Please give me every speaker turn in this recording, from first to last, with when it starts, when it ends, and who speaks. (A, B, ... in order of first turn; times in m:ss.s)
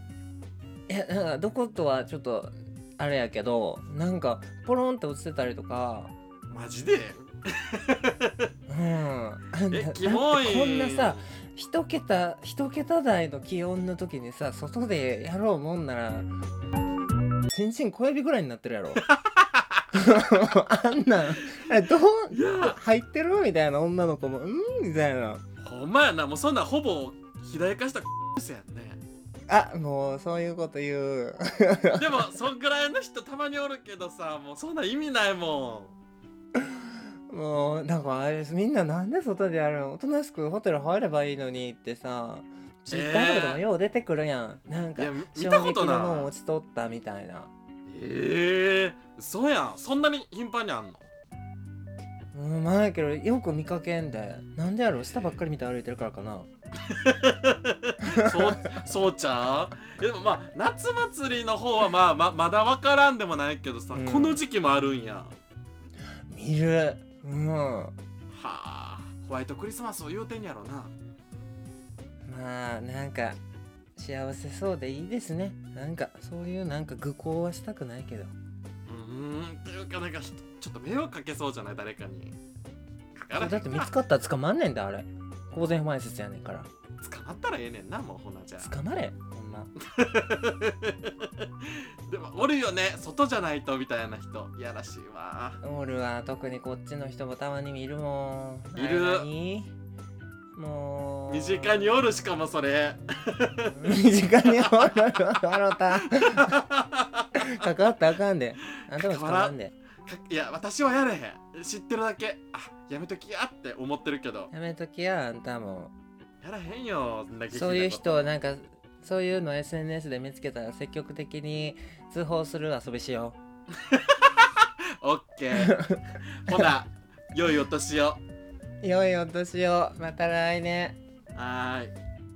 0:00.9-0:06.1 A
0:06.5-0:08.5 B
0:08.7-0:16.3 A
0:09.7-0:11.3 B
0:17.5-0:19.0 A
0:19.0-0:19.8 B
0:19.9-0:25.4 A
0:22.3-0:22.8 B
0:25.6-0:29.0 B
0:29.5-0:32.3 A
0:32.0-0:36.0 B
0:37.3-0:47.5 A
0:42.9-0:43.6 B
0:45.0-0:46.3 B
0:47.9-0:51.1 B
0:52.3-0:56.5 A
0:56.9-1:05.4 B
0:58.1-0:58.7 A
1:03.9-1:04.4 A
1:06.3-1:08.0 A
1:08.3-1:10.9 B
1:12.3-1:13.4 A
1:14.0-1:18.3 A
1:18.9-1:22.4 B
1:23.2-1:23.9 B
1:23.4-1:26.7 A
1:27.0-1:28.8 B
1:28.6-1:29.7 A
1:29.8-1:35.6 B
1:35.6-1:39.7 A
1:38.8-1:39.3 B
1:40.5-1:42.0 A
1:41.3-1:43.8 B
1:43.7-1:46.6 A
1:46.2-1:47.3 B
1:47.4-1:49.7 A
1:48.9-1:54.5 B
1:54.5-1:55.9 A
1:56.4-1:58.3 B
1:57.5-2:03.4 A
2:03.9-2:08.2 B
2:05.6-2:06.0 A
2:08.8-2:11.0 A
2:11.4-2:12.0 B